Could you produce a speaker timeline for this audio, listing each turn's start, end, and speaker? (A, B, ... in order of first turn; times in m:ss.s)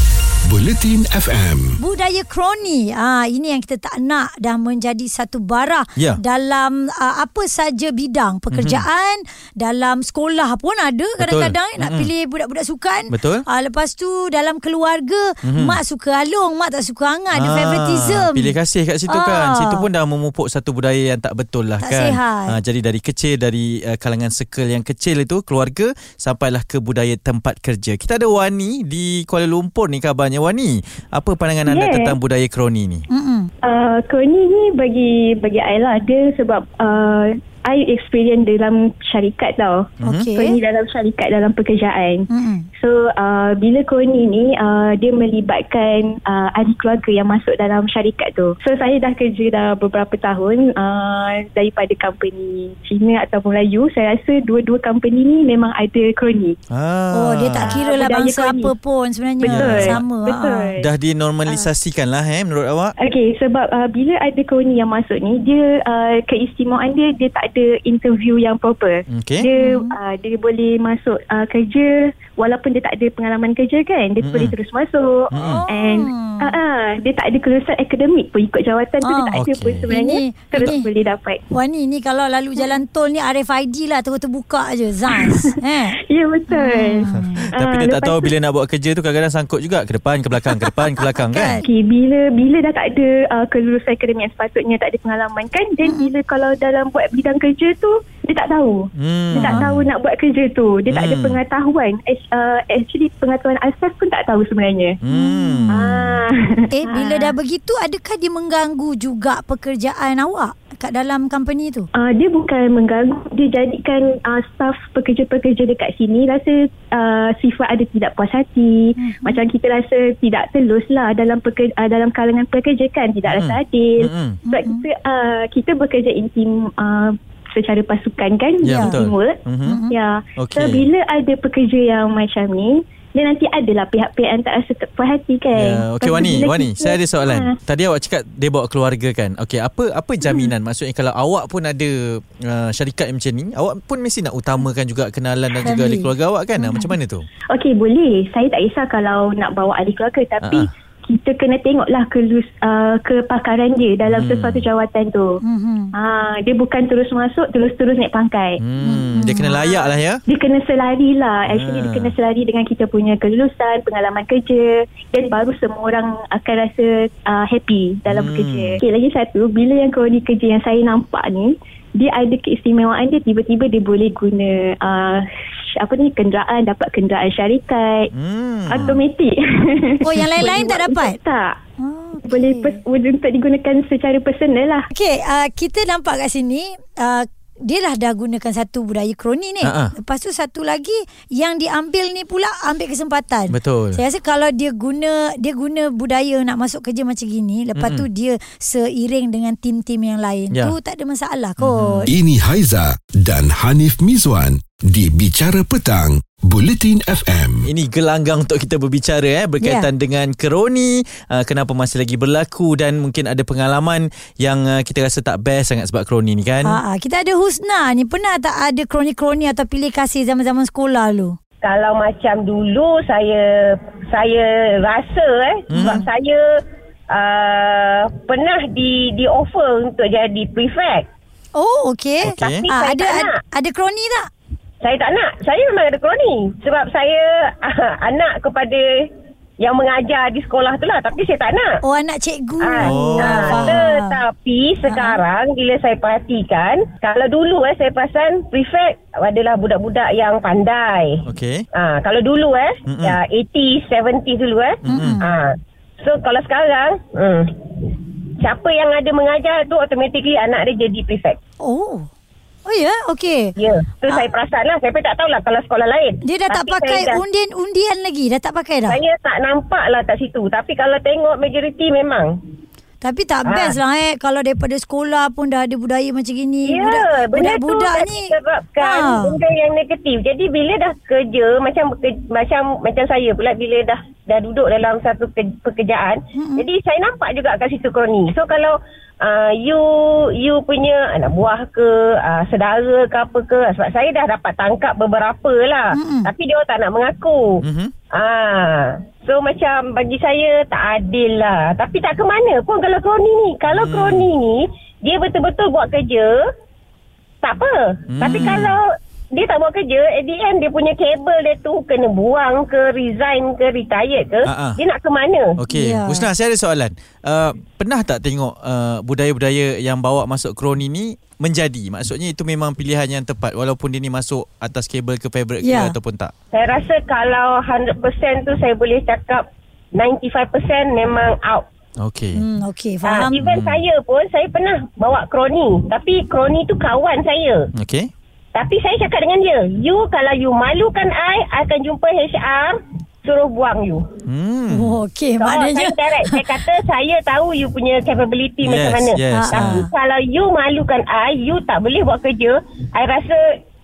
0:00.4-0:01.8 A
0:01.8-0:18.5 B
0:08.5-0:08.8 C
0:11.2-0:12.1 C
0:13.1-0:13.4 C
0:15.4-0:15.8 C
0:17.3-0:33.0 C
0:19.1-0:19.8 B
0:21.8-0:22.5 B
0:31.6-0:32.2 D
0:33.1-0:33.5 B
0:33.6-0:56.6 D
0:40.0-0:40.3 C
0:40.0-0:40.6 B
0:42.3-0:42.6 B
0:56.7-0:57.8 C
0:57.1-1:00.7 B
0:57.7-0:58.7 D
0:59.4-1:00.0 C
0:59.4-1:00.9 D
1:00.8-1:02.9 C
1:03.0-1:21.4 D
1:09.1-1:09.4 C
1:09.6-1:10.0 B
1:14.2-1:14.6 C
1:15.3-1:15.6 C
1:15.4-1:16.5 B
1:19.0-1:19.4 B
1:19.4-1:19.9 C
1:19.9-1:20.9 B
1:21.5-1:25.9 B
1:25.1-1:25.5 D
1:26.1-1:28.3 D
1:26.5-1:27.4 B
1:27.0-1:31.6 C
1:31.0-1:31.6 B
1:31.6-1:45.0 D
1:35.8-1:36.1 B
1:39.0-1:39.8 C
1:39.4-1:39.6 B
1:40.9-1:41.4 C
1:45.0-1:46.2 C
1:45.1-1:45.8 B
1:45.7-1:47.3 D
1:46.7-1:51.9 B
1:52.0-2:17.5 D
1:59.0-1:59.4 B
2:03.3-2:04.4 C
2:04.5-2:04.8 B
2:08.6-2:09.8 C
2:08.6-2:08.9 B
2:09.6-2:09.9 B
2:10.4-2:10.9 C
2:15.5-2:21.9 C
2:22.4-2:27.3 C
2:25.6-2:26.9 B
2:27.5-2:35.4 D
2:30.4-2:30.7 C
2:34.0-2:34.6 C
2:35.4-2:35.9 B
2:36.0-2:38.6 D
2:38.6-2:40.2 C
2:38.8-2:39.6 B
2:40.3-2:55.2 D
2:41.5-2:42.1 C
2:48.1-2:48.8 C
2:55.8-2:58.1 D
2:58.1-2:59.0 C
2:58.7-3:01.6 D
3:00.0-3:01.2 B
3:01.8-3:02.8 B
3:02.3-3:04.9 D
3:04.9-3:22.1 B
3:09.6-3:09.9 C
3:13.5-3:14.0 C
3:17.8-3:18.1 C
3:20.5-3:20.8 C
3:21.6-3:22.1 C
3:22.1-3:27.6 A
3:27.6-3:36.8 C
3:29.6-3:29.9 B
3:36.6-3:41.4 B
3:41.6-3:46.4 E
3:45.7-3:46.1 C
3:47.1-3:51.0 E
3:51.5-3:54.3 B
3:52.2-3:52.6 C
3:52.6-3:53.4 E
3:54.8-3:58.9 E
3:59.6-4:01.7 E
4:01.8-4:04.2 B
4:02.6-4:11.2 E
4:02.8-4:03.8 C
4:04.8-4:05.2 B
4:11.3-4:11.6 C
4:11.7-4:21.4 E
4:12.9-4:13.2 C
4:14.9-4:15.2 C
4:14.9-4:15.3 B
4:21.6-4:22.1 B
4:22.6-4:23.5 B
4:23.6-4:27.2 E
4:26.2-4:29.0 B
4:28.9-4:32.3 E
4:33.0-4:39.3 B
4:33.4-4:33.8 E
4:36.6-4:57.6 E
4:46.4-4:46.6 B
4:55.9-4:56.3 B
4:57.6-4:57.9 C
4:58.1-5:06.4 E
5:03.7-5:04.3 C
5:07.4-5:15.6 E
5:08.1-5:08.8 C
5:14.4-5:14.8 C
5:15.6-5:26.3 C
5:15.7-5:16.3 B
5:25.6-5:26.0 B
5:26.5-5:31.6 E
5:32.0-5:32.4 C
5:32.3-5:33.4 B
5:33.0-5:37.7 E
5:33.4-5:33.8 C
5:37.7-5:38.1 C
5:38.5-5:44.1 E
5:44.2-5:45.0 C
5:44.7-5:46.6 B
5:45.4-5:53.4 E
5:48.6-5:49.9 C
5:49.3-5:49.9 B